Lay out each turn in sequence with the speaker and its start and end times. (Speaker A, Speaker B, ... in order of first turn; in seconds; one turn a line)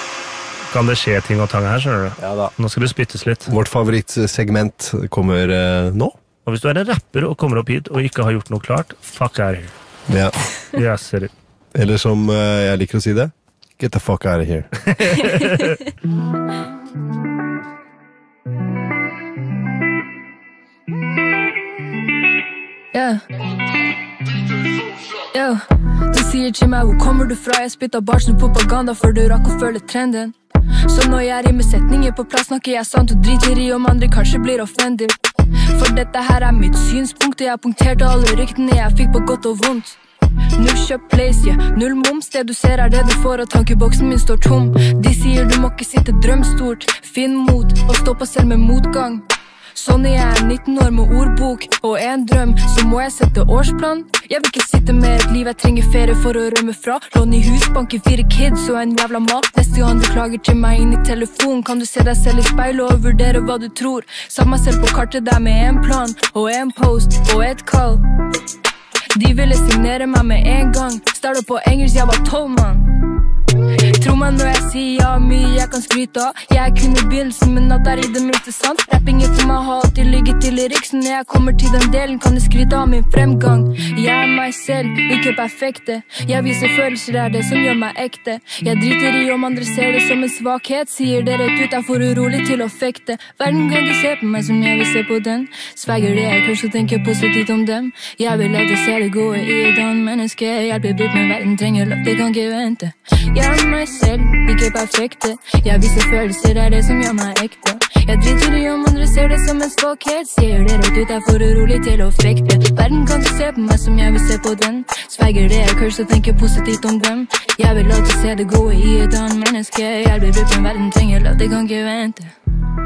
Speaker A: 0.7-3.5
Speaker B: 2.2-2.5
Speaker B: 3.5-6.1
Speaker A: 6.5-9.7
Speaker B: 10.1-10.3
Speaker A: 10.7-11.3
Speaker B: 11.8-14.7
Speaker A: 14.9-15.8
Speaker C: 22.9-23.2
Speaker C: 25.3-40.0
Speaker C: 40.6-68.0
Speaker C: 69.1-73.1
Speaker C: 73.9-122.3